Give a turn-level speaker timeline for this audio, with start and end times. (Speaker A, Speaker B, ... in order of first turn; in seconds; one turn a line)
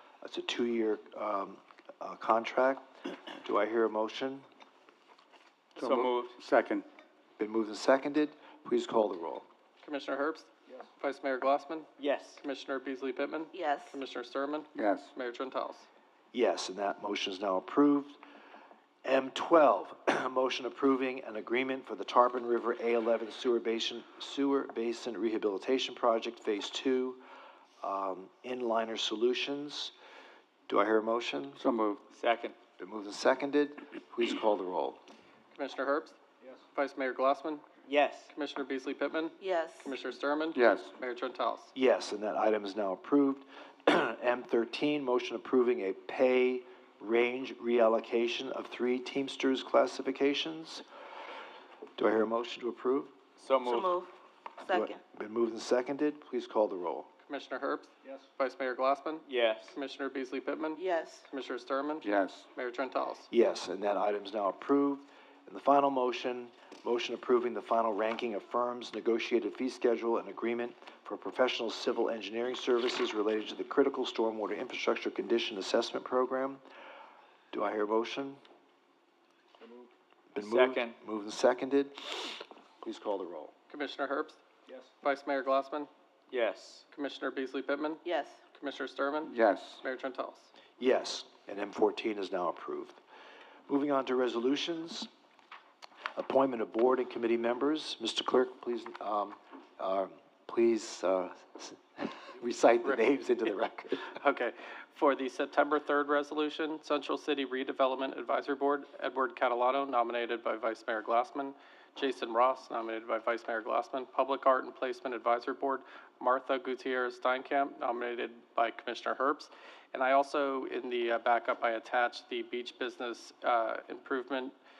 Speaker A: 0.2-2.9
Speaker A: 3.4-4.4
Speaker B: 5.8-6.4
Speaker C: 5.8-6.8
Speaker A: 7.4-9.4
Speaker D: 9.8-15.9
Speaker B: 12.0-12.4
Speaker E: 13.5-14.0
Speaker C: 14.8-15.1
Speaker A: 16.3-18.2
Speaker A: 19.0-27.2
Speaker A: 27.8-29.9
Speaker A: 30.7-31.6
Speaker C: 31.6-32.0
Speaker B: 32.1-32.5
Speaker A: 32.8-35.0
Speaker D: 35.5-36.2
Speaker D: 36.7-37.6
Speaker B: 37.9-38.3
Speaker D: 38.3-41.7
Speaker E: 39.4-39.9
Speaker C: 40.5-40.9
Speaker A: 41.7-50.8
Speaker A: 52.0-53.1
Speaker B: 53.4-53.9
Speaker E: 53.6-54.1
Speaker E: 54.6-55.0
Speaker A: 54.7-57.1
Speaker D: 57.3-63.3
Speaker B: 59.2-59.8
Speaker E: 60.8-61.3
Speaker C: 62.0-62.5
Speaker A: 63.3-76.6
Speaker A: 77.5-78.4
Speaker A: 80.3-83.5
Speaker B: 80.4-81.0
Speaker D: 83.7-84.4
Speaker D: 85.0-85.9
Speaker B: 86.3-86.8
Speaker D: 86.9-88.0
Speaker E: 88.0-88.4
Speaker D: 88.5-90.5
Speaker C: 89.2-89.8
Speaker A: 90.8-93.0
Speaker A: 93.7-95.1
Speaker A: 96.2-104.1
Speaker D: 104.1-124.5